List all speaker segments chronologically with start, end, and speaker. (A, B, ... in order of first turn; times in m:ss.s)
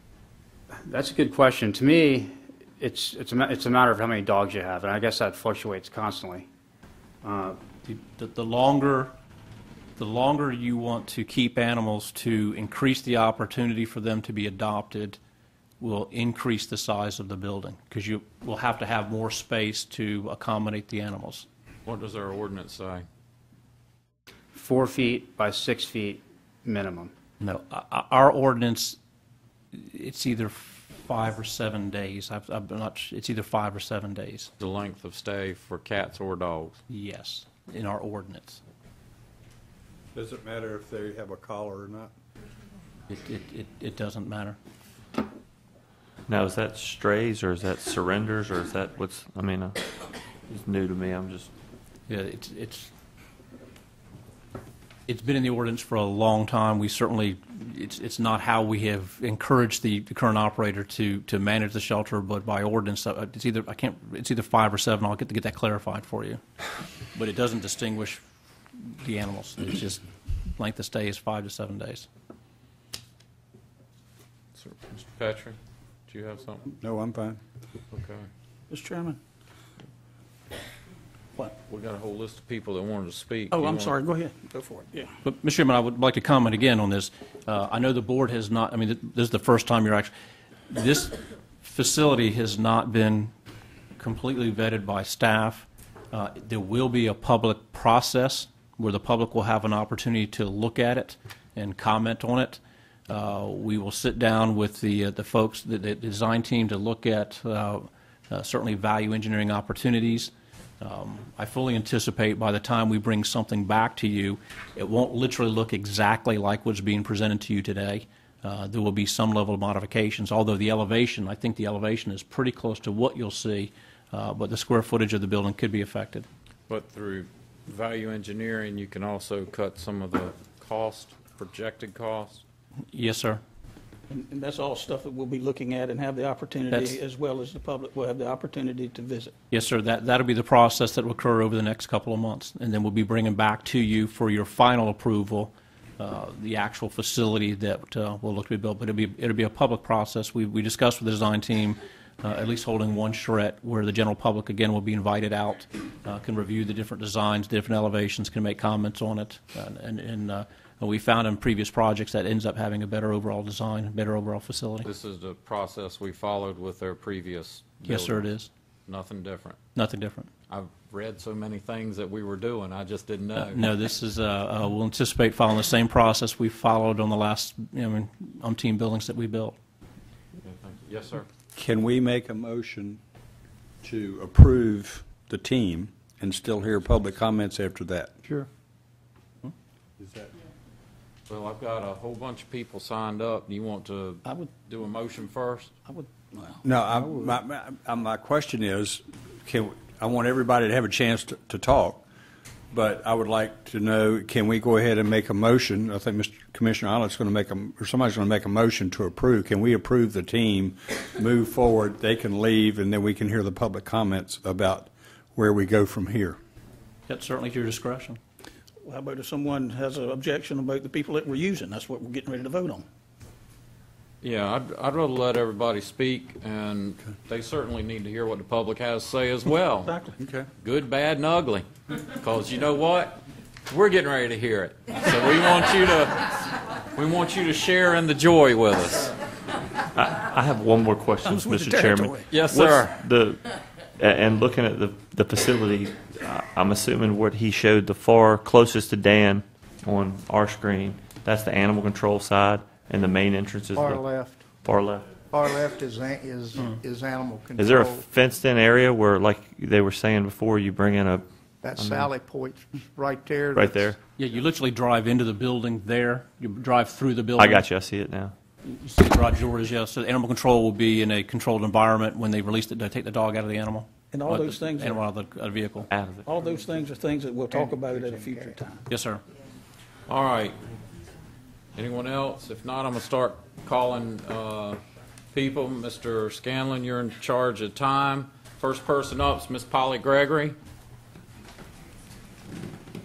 0:00.8-0:06.5 A
0:07.2-0:07.6 A
0:07.9-0:09.1 B
0:10.0-0:15.2 B
0:15.8-0:21.5 B
0:21.9-0:23.1 C
0:24.5-0:27.1 A
0:27.4-0:29.0 B
0:29.7-0:34.5 B
0:34.6-0:36.8 C
0:36.9-0:38.6 B
0:40.2-0:42.1 D
0:43.1-0:44.6 B
0:46.3-0:49.8 E
0:50.5-0:51.5 E
0:52.1-0:52.9 B
0:55.1-1:06.4 B
1:07.1-1:08.2 B
1:08.8-1:12.1 B
1:14.6-1:16.7 C
1:16.8-1:17.4 D
1:17.9-1:18.3 C
1:18.7-1:19.2 F
1:21.6-1:24.0 C
1:23.5-1:25.1 F
1:25.2-1:30.1 B
1:30.7-1:33.3 B
1:34.0-2:06.3 B
2:06.7-2:12.4 C
2:12.9-2:13.4 B
2:14.1-2:19.3 F
2:19.5-2:44.9 B
2:44.8-2:48.3 C
2:47.8-2:48.5 B
2:48.9-2:49.6 C
2:49.8-2:50.3 B
2:50.5-2:53.7 C
2:53.4-2:59.6 B
3:00.4-3:01.3 C
3:01.6-3:03.0 D
3:03.8-3:08.2 D
3:10.0-3:10.3 D
3:11.3-3:15.7 C
3:15.9-3:16.6 F
3:16.6-3:22.0 D
3:22.7-3:36.4 D
3:37.1-3:38.2 B
3:38.8-3:42.8 F
3:44.2-3:49.9 C
3:49.8-3:50.2 F
3:50.2-3:50.5 D
3:50.6-3:56.4 C
3:56.9-3:59.1 C
3:59.9-4:03.4 E
4:01.2-4:02.3 F
4:02.3-4:03.0 C
4:04.0-4:14.0 E
4:13.8-4:14.4 G
4:14.6-4:15.1 E
4:15.3-4:18.1 G
4:17.6-4:22.1 E
4:21.6-4:23.9 G
4:23.6-4:24.0 E
4:24.2-4:27.6 B
4:27.4-4:28.3 E
4:28.6-4:35.9 B
4:34.1-4:35.1 F
4:35.9-4:36.2 E
4:36.3-4:38.8 F
4:37.5-4:38.6 G
4:38.9-4:39.2 B
4:40.1-4:40.6 C
4:41.8-4:44.8 C
4:45.3-4:50.6 C